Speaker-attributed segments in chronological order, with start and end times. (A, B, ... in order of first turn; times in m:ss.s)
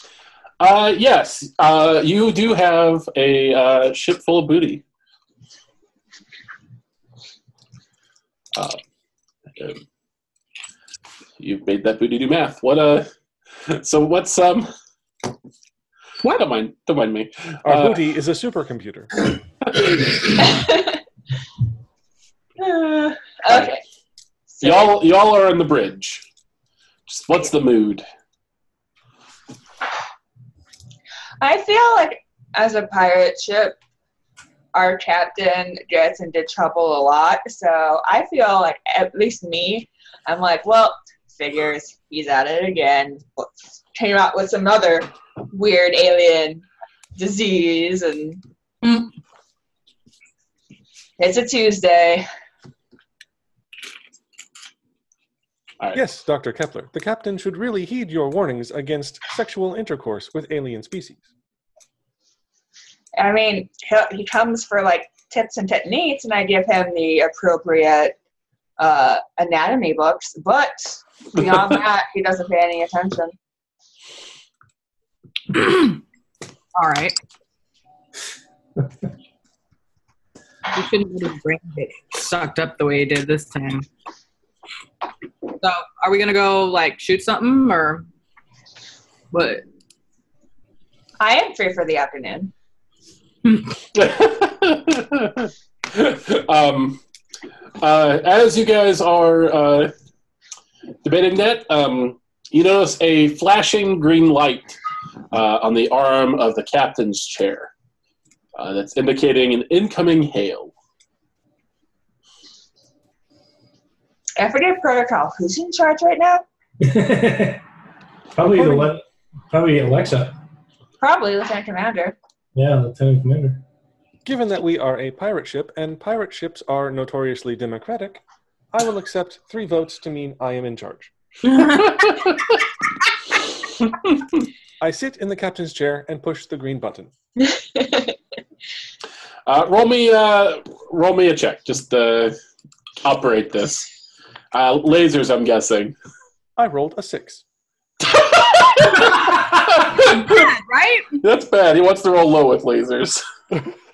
0:00.6-0:04.8 A
0:11.4-0:13.1 A
0:13.7-0:14.7 A
0:16.3-0:18.0 A
0:17.6-0:19.3 B
0:20.4-0:21.0 C
0:22.6-0:23.8 C
0:24.6-0:24.9 C
0:24.6-0:26.2 A
0:27.1-0:28.0 A
0:31.4-0:33.8 C
0:34.7-0:46.6 C
0:47.2-0:48.4 C
0:48.8-0:49.1 D
0:51.2-0:52.3 C
0:55.9-1:01.3 B
1:03.2-1:08.2 C
1:08.8-1:13.4 C
1:15.5-1:16.0 D
1:16.8-1:17.2 D
1:20.7-1:23.9 D
1:25.6-1:28.0 D
1:29.3-1:29.6 D
1:31.2-1:32.5 C
1:33.9-1:37.0 A
1:37.8-1:39.9 A
1:41.0-1:44.8 A
1:45.3-1:47.7 A
1:48.6-1:50.7 A
1:54.4-1:56.4 C
1:56.8-1:57.6 E
1:58.4-2:00.3 E
2:01.0-2:02.2 C
2:02.6-2:03.6 E
2:04.2-2:11.1 B
2:11.5-2:12.0 D
2:11.8-2:12.4 A
2:14.8-2:17.1 B
2:17.4-2:18.2 C
2:19.5-2:22.4 A
2:23.0-2:23.9 A
2:24.5-2:26.0 A
2:26.6-2:27.4 B
2:28.1-2:30.5 A
2:30.0-2:31.2 D
2:31.2-2:33.2 A